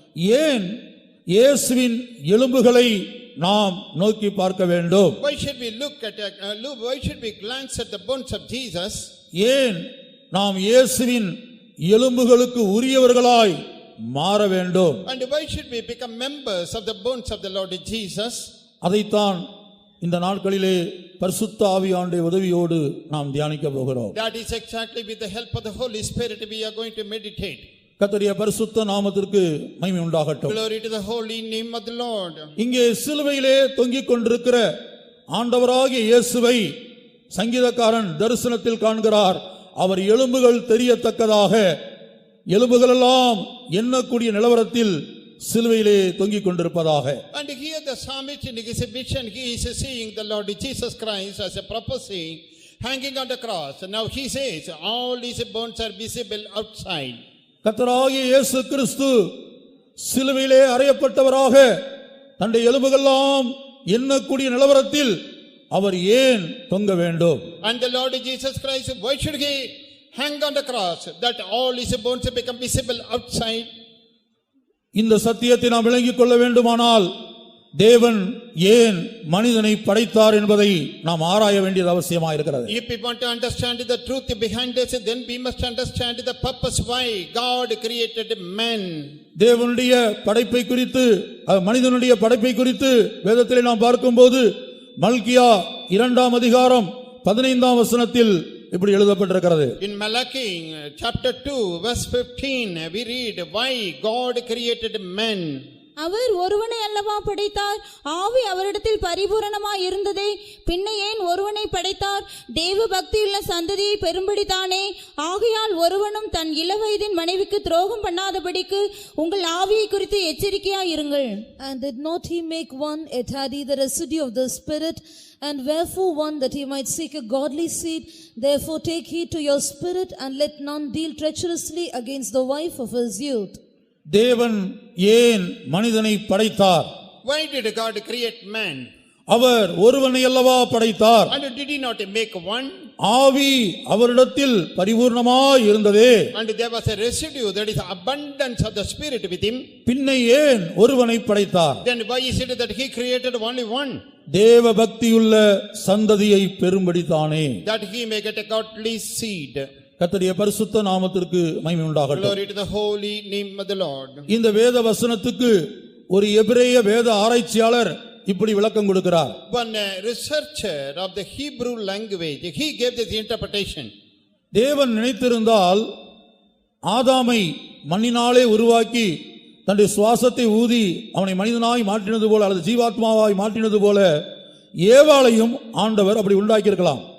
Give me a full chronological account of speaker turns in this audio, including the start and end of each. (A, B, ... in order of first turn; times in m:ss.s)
0:00.2-0:00.8 A
0:01.3-0:05.2 A
0:05.2-0:09.1 B
0:09.4-0:11.4 A
0:11.9-0:13.6 A
0:14.1-0:15.0 A
0:15.1-0:18.5 B
0:18.8-0:19.4 A
0:20.0-0:24.2 A
0:24.2-0:27.6 B
0:28.0-0:30.6 A
0:30.5-0:32.5 B
0:32.6-0:34.6 A
0:35.3-0:36.7 A
0:37.3-0:41.6 A
0:42.5-0:47.2 A
0:47.3-0:57.2 B
0:57.6-0:59.3 A
1:00.0-1:01.7 A
1:02.4-1:05.2 A
1:05.7-1:07.4 A
1:07.6-1:13.7 B
1:15.0-1:17.1 A
1:17.8-1:22.7 A
1:22.7-1:29.1 B
1:29.4-1:34.5 A
1:35.0-1:39.7 A
1:39.8-1:45.6 B
1:46.0-2:01.5 C
2:01.6-2:13.6 D
2:14.1-2:16.9 A
2:17.2-2:18.9 B
2:19.3-2:21.3 A
2:21.3-2:22.8 B
2:23.0-2:26.2 A
2:26.4-2:29.6 B
2:29.9-2:31.8 A
2:31.8-2:34.0 B
2:34.3-2:37.6 A
2:37.6-2:39.7 B
2:40.0-2:42.4 A
2:42.1-2:44.2 B
2:44.3-2:45.6 A
2:46.1-2:49.4 A
2:49.5-2:53.9 B
2:54.5-2:55.8 A
2:56.9-2:59.1 A
2:59.7-3:04.1 A
3:04.8-3:07.0 A